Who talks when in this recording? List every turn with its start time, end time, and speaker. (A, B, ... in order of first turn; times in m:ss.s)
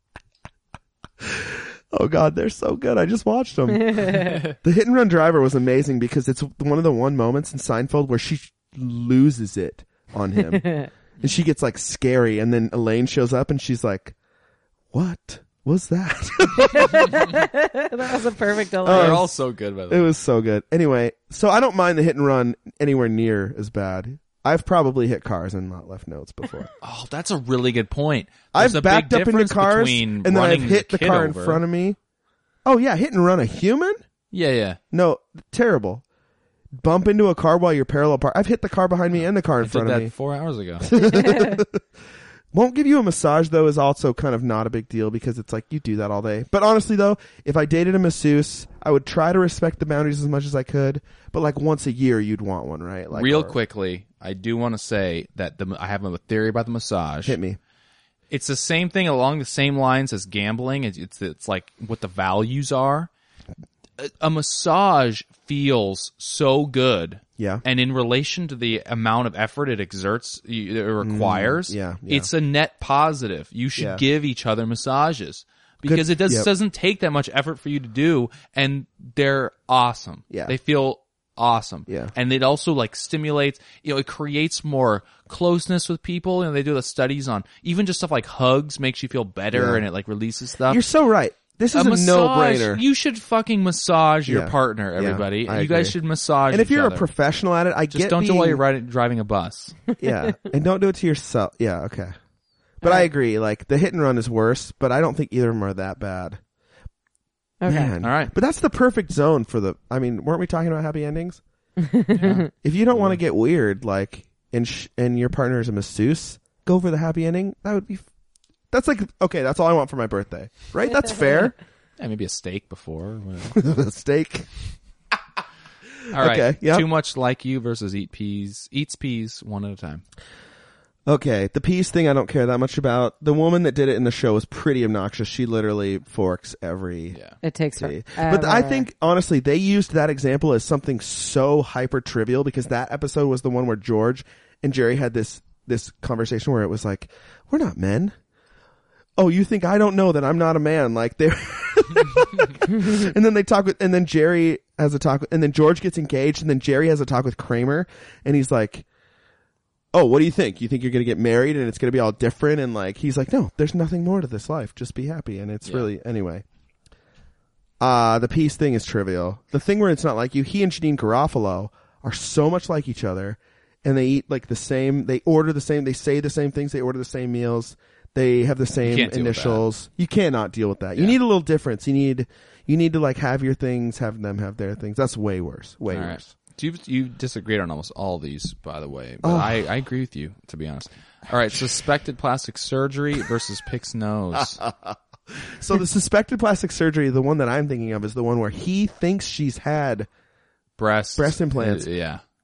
0:01.2-0:14.1 A
0:03.9-0:04.3 B
0:04.2-0:04.5 C
0:10.4-0:10.9 B
0:14.9-0:17.0 A
0:16.6-0:19.2 B
0:18.8-0:19.3 A
0:18.9-0:20.1 C
0:19.9-0:26.7 A
0:26.8-0:31.6 C
0:28.5-0:32.0 A
0:32.6-0:34.0 A
0:34.3-0:34.8 C
0:34.9-0:36.0 A
0:36.7-0:40.1 A
0:39.2-0:41.0 C
0:40.8-0:41.8 A
0:42.5-0:53.6 A
0:53.1-0:57.4 C
0:57.2-0:57.6 A
0:58.3-1:03.1 C
1:04.0-1:30.8 C
1:07.4-1:07.6 A
1:11.0-1:12.3 A
1:13.8-1:14.0 A
1:15.8-1:16.5 A
1:20.3-1:20.6 A
1:21.9-1:22.1 A
1:29.5-1:29.8 A
1:30.7-1:32.8 A
1:31.7-1:37.1 C
1:34.2-1:36.0 A
1:36.5-1:38.6 A
1:37.9-1:39.8 C
1:40.0-1:42.1 A
1:40.0-1:40.3 B
1:42.8-1:43.1 B
1:42.8-1:46.4 A
1:47.6-1:47.9 B
1:47.6-1:51.4 A
1:48.0-1:48.3 C
1:51.8-1:52.5 B
1:52.1-1:53.2 C
1:52.2-1:58.1 A
1:58.7-2:01.5 A
2:02.0-2:03.6 C
2:03.5-2:04.5 A
2:06.1-2:06.9 A
2:06.1-2:10.0 C
2:11.0-2:17.2 A
2:17.1-2:17.4 C
2:17.4-2:18.9 B
2:17.8-2:28.1 A
2:29.2-2:38.8 A
2:39.9-2:46.4 A
2:47.8-3:06.3 A
2:58.8-2:59.6 C
3:05.9-3:14.6 C
3:09.2-3:09.6 A
3:14.4-3:20.1 A
3:20.8-3:22.2 C
3:21.2-3:21.9 A